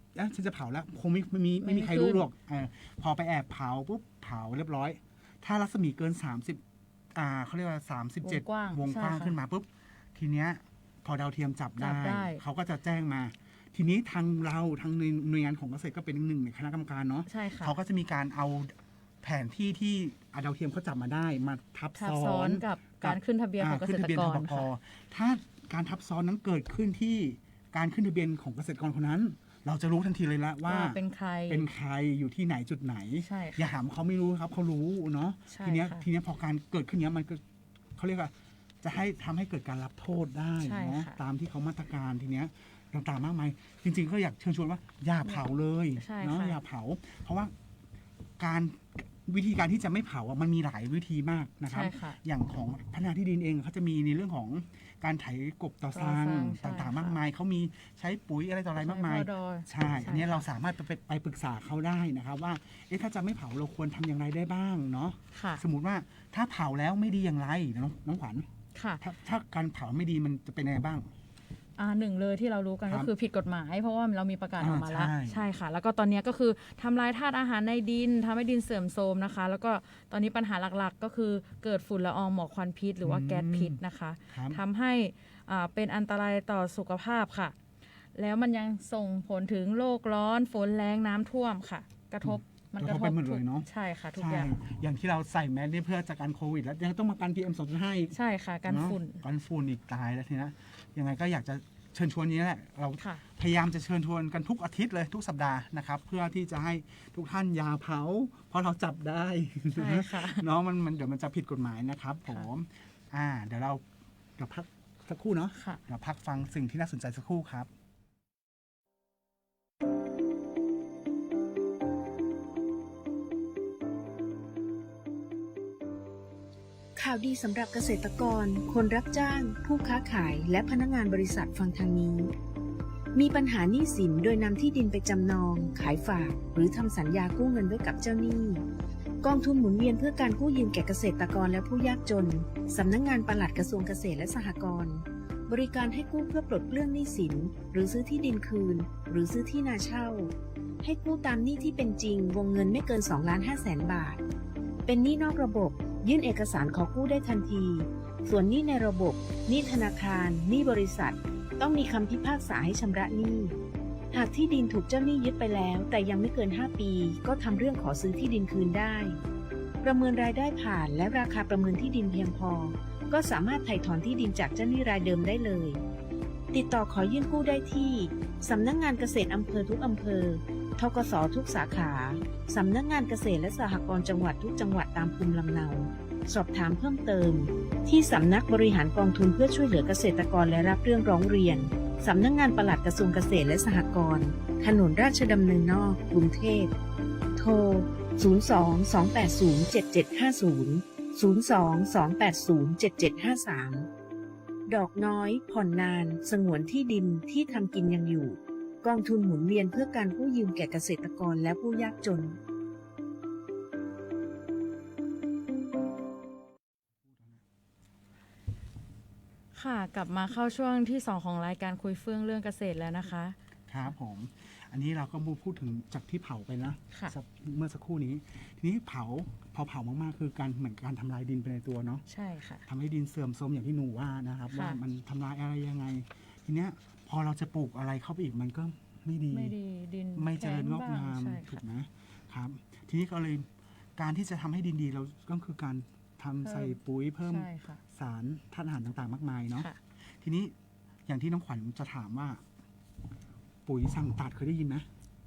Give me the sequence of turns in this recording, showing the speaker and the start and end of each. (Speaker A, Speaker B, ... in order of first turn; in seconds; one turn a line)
Speaker A: 0.1-6.6
Speaker B: 1.6-2.2
Speaker A: 7.1-37.4
Speaker B: 8.2-9.3
Speaker B: 11.8-12.4
Speaker B: 17.3-17.8
Speaker B: 22.0-24.7
Speaker B: 30.6-31.7
Speaker B: 33.2-33.6
Speaker B: 35.5-36.0
Speaker A: 38.0-47.5
Speaker B: 40.6-41.2
Speaker B: 46.0-46.6
Speaker A: 48.4-68.5
Speaker B: 51.7-52.2
Speaker B: 55.9-57.2
Speaker B: 58.8-60.4
Speaker B: 65.3-65.6
Speaker B: 68.7-69.0
Speaker A: 69.0-71.1
Speaker B: 71.8-87.5
Speaker A: 74.6-75.5
Speaker A: 83.0-84.6
Speaker B: 88.1-94.5
Speaker A: 92.2-113.8
Speaker B: 98.1-99.2
Speaker B: 109.7-110.4
Speaker A: 114.4-117.7
Speaker B: 115.5-115.8
Speaker C: 127.0-132.3
Speaker C: 133.1-138.6
Speaker C: 139.2-154.2
Speaker C: 154.8-163.6
Speaker C: 164.1-169.2
Speaker C: 169.8-175.8
Speaker C: 176.5-196.7
Speaker C: 197.3-203.9
Speaker C: 204.7-212.4
Speaker A: 217.0-217.4
Speaker B: 219.5-223.3
Speaker A: 223.7-232.0
Speaker B: 232.1-232.6
Speaker A: 232.7-239.5
Speaker B: 234.5-234.8
Speaker B: 239.3-241.6
Speaker A: 240.1-250.5
Speaker B: 246.4-247.8
Speaker A: 251.1-252.4
Speaker A: 253.7-254.9